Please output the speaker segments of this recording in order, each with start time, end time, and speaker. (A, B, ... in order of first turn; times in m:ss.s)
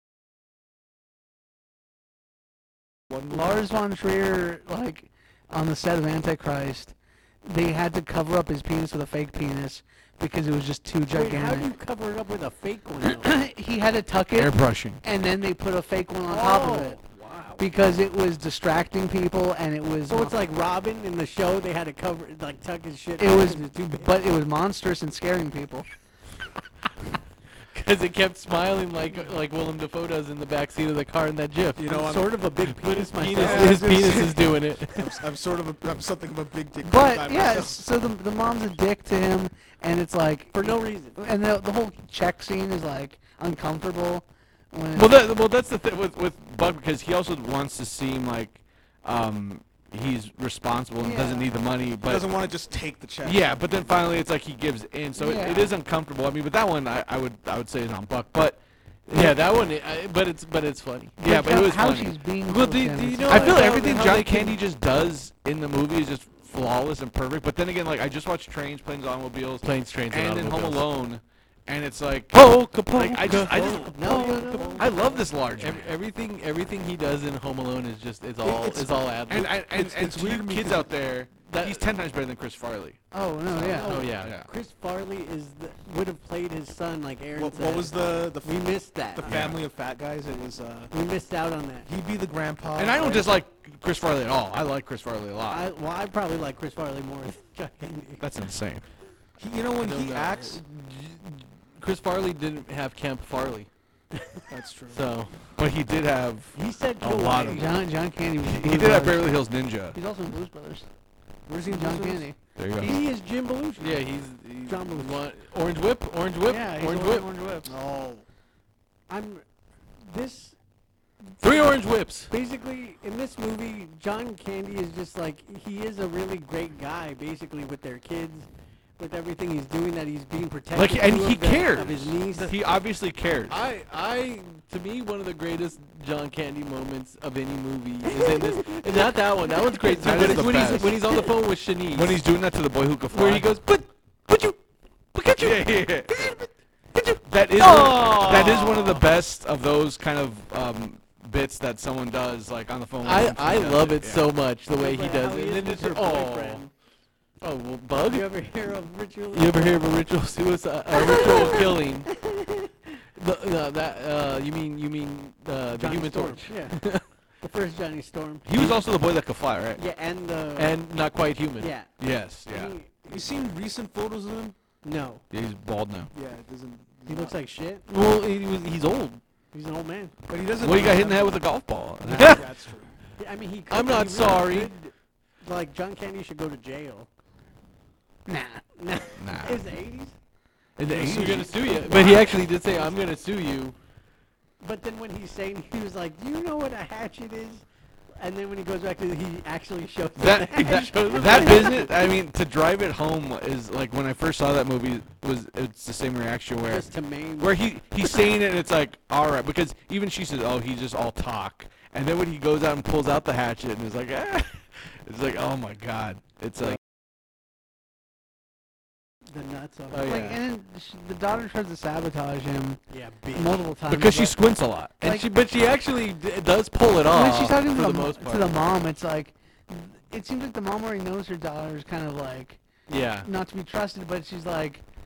0:03.1-0:03.4 A
0:03.3-0:11.7 B
0:11.1-0:13.3 C
0:13.0-0:17.0 B
0:14.3-0:15.0 D
0:16.3-0:17.6 C
0:17.6-0:20.4 B
0:20.1-0:24.1 C
0:23.2-0:25.9 B
0:27.7-0:31.8 E
0:31.8-0:32.4 A
0:31.8-0:34.0 C
0:32.9-0:35.1 E
0:33.3-0:37.8 A
0:36.8-0:45.2 B
0:40.5-0:41.2 C
0:44.9-0:52.3 D
0:51.0-0:51.5 B
0:52.0-0:54.0 A
0:53.2-0:59.4 D
0:55.2-0:55.7 B
0:59.1-1:01.2 E
1:01.2-1:02.1 D
1:01.2-1:03.8 B
1:02.5-1:04.6 E
1:03.3-1:15.9 D
1:09.6-1:10.8 E
1:12.3-1:14.8 E
1:13.5-1:15.2 C
1:14.1-1:14.7 B
1:15.6-1:19.5 E
1:18.4-1:19.0 A
1:19.3-1:23.0 D
1:19.5-1:20.9 A
1:21.4-1:21.9 E
1:23.1-1:23.9 B
1:23.6-1:29.4 C
1:23.8-1:24.5 D
1:23.8-1:24.3 E
1:27.4-1:30.9 A
1:29.2-1:29.6 D
1:30.9-1:31.8 C
1:31.8-1:33.4 A
1:32.8-1:35.7 D
1:35.5-1:38.2 C
1:38.2-1:38.8 D
1:39.4-1:40.6 A
1:39.8-1:43.7 E
1:44.5-1:45.0 A
1:44.9-1:45.3 E
1:45.6-1:47.7 D
1:46.5-1:47.7 C
1:47.5-1:49.4 B
1:48.4-1:50.0 D
1:49.9-1:50.9 B
1:51.5-1:52.3 A
1:51.6-1:52.4 B
1:52.6-1:52.9 D
1:52.8-1:54.0 C
1:53.8-1:57.3 E
1:54.6-1:55.2 C
1:56.4-1:57.7 C
1:57.6-1:58.2 A
1:59.1-1:59.4 C
2:00.0-2:00.6 C
2:01.4-2:02.3 E
2:01.4-2:01.7 C
2:02.3-2:12.6 C
2:10.7-2:13.6 D
2:13.5-2:22.2 E
2:18.1-2:21.3 C
2:20.0-2:21.0 D
2:21.9-2:23.5 D
2:23.1-2:24.6 E
2:25.1-2:29.0 E
2:25.4-2:26.3 D
2:27.3-2:34.3 D
2:33.0-2:36.6 E
2:34.7-2:36.7 C
2:37.4-2:38.3 E
2:38.0-2:39.8 C
2:39.3-2:42.1 E
2:41.0-2:42.7 C
2:43.2-2:47.0 E
2:45.7-2:46.8 C
2:47.4-2:48.4 C
2:48.4-2:49.8 D
2:49.8-2:50.8 C
2:50.6-2:51.7 E
2:51.6-2:51.9 C
2:52.0-2:52.8 D
2:52.4-2:53.2 C
2:53.0-2:54.6 A
2:54.8-2:55.2 C
2:55.3-2:56.1 D
2:56.1-2:57.4 A
2:57.1-2:57.8 C
2:57.9-2:59.2 E
2:59.5-3:00.1 C
3:00.3-3:01.5 A
3:00.6-3:02.4 D
3:02.0-3:02.9 A
3:02.1-3:02.4 E
3:03.2-3:07.1 C
3:03.7-3:04.8 E
3:08.2-3:08.6 B
3:08.8-3:10.2 C
3:09.2-3:09.6 D
3:10.8-3:11.8 D
3:10.9-3:13.0 C
3:10.9-3:13.8 E
3:14.6-3:17.6 C
3:18.2-3:22.0 C
3:20.2-3:26.9 D
3:20.6-3:21.9 E
3:26.6-3:28.3 C
3:27.4-3:36.8 D
3:39.3-3:40.2 C
3:39.9-3:40.4 E
3:40.0-3:42.8 B
3:42.9-3:43.7 C
3:43.3-3:44.4 B
3:43.9-3:45.0 D
3:45.0-3:45.2 B
3:45.0-3:48.6 E
3:47.1-3:52.6 B
3:52.9-3:53.3 E
3:53.2-3:54.8 B